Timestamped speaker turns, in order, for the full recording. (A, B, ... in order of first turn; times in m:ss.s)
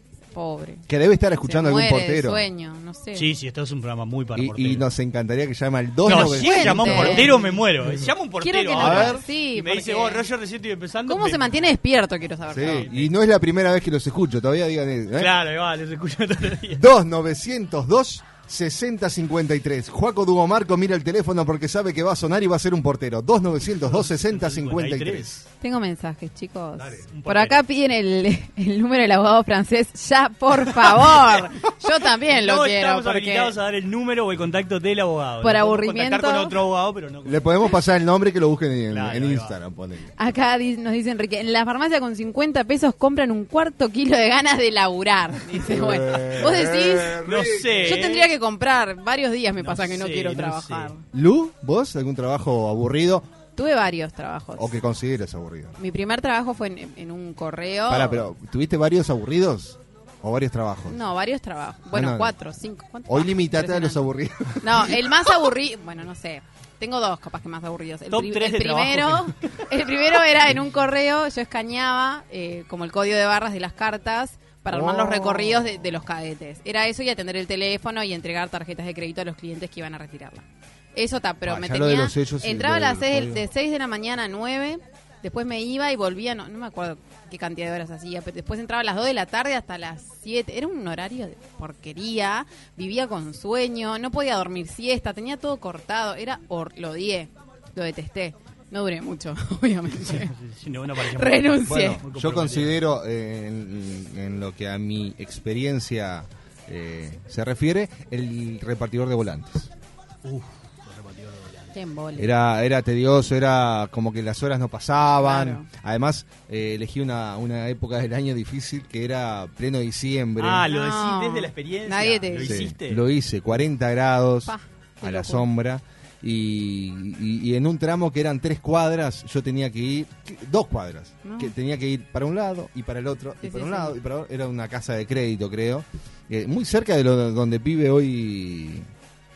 0:00.3-0:00.8 A
0:00.9-0:02.4 B
0:01.4-0:03.3 A
0:03.1-0:04.9 C
0:04.3-0:08.1 B
0:06.0-0:11.7 C
0:06.1-0:07.3 A
0:08.4-0:10.2 A
0:08.8-0:09.2 B
0:11.1-0:12.9 A
0:12.5-0:15.3 B
0:12.6-0:13.1 C
0:15.2-0:16.8 C
0:16.7-0:25.4 B
0:23.8-0:25.4 C
0:25.6-0:33.5 A
0:26.8-0:27.6 C
0:30.8-0:31.3 C
0:32.2-0:37.6 C
0:35.4-0:36.6 A
0:37.2-0:40.1 B
0:38.9-0:39.5 C
0:40.2-0:47.2 A
0:45.6-0:48.0 B
0:47.2-0:48.3 C
0:47.8-0:51.0 A
0:49.6-0:50.9 C
0:51.1-0:53.2 B
0:53.6-0:54.7 A
0:54.6-0:55.8 B
0:55.8-0:58.2 A
0:57.9-1:01.0 B
1:00.9-1:04.0 A
1:01.9-1:02.3 B
1:03.1-1:04.9 B
1:04.6-1:40.3 A
1:08.1-1:09.4 C
1:14.7-1:15.8 B
1:21.4-1:23.4 B
1:40.0-1:42.8 C
1:41.1-1:42.0 A
1:41.6-1:49.7 B
1:50.2-1:51.7 C
1:51.7-1:52.3 A
1:52.2-2:00.7 B
1:55.2-1:55.7 A
2:00.4-2:03.0 C
2:00.7-2:02.6 A
2:02.4-2:18.8 B
2:04.4-2:05.5 A
2:11.2-2:11.5 A
2:13.4-2:13.9 A